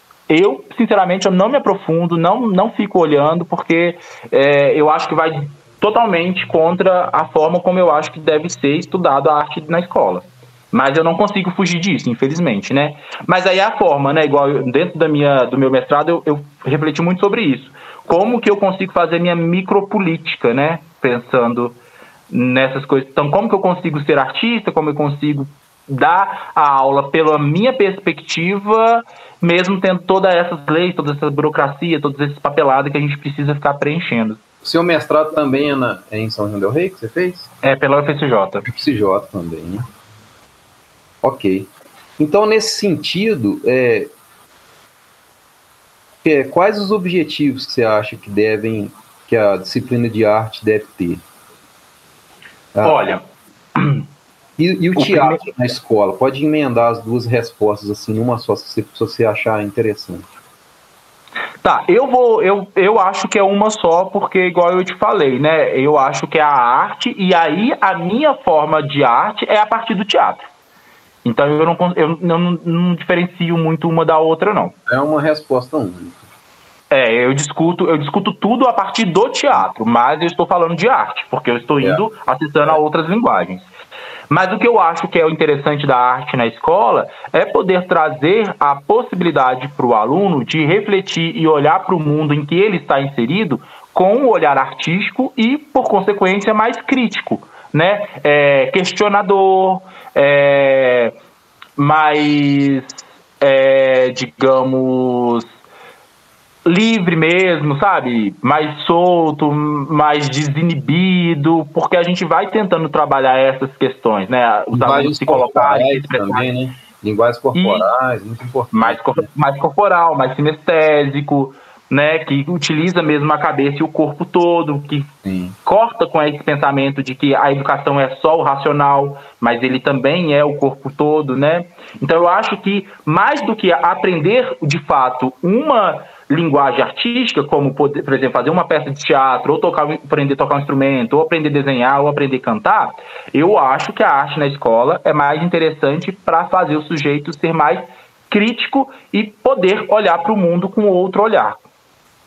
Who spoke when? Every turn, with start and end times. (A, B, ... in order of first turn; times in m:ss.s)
0:00.3-0:21.8 A
0:22.3-0:34.4 A
0:34.6-0:37.5 B
0:37.6-0:38.7 A
0:38.6-0:39.8 B
0:41.2-0:44.1 B
0:46.2-0:51.2 B
0:52.7-0:53.0 B
0:52.8-0:53.2 A
0:53.8-0:54.0 A
0:54.6-1:00.3 B
0:55.0-0:55.4 A
1:01.6-1:10.4 A
1:11.2-1:14.7 A
1:14.9-1:16.2 B
1:16.9-1:23.6 A
1:24.3-1:41.1 A
1:41.8-1:45.5 A
1:46.6-1:56.4 A
1:54.7-1:59.3 B
1:57.6-1:57.9 A
1:58.7-2:05.1 A
2:05.2-2:05.6 B
2:05.6-2:31.6 A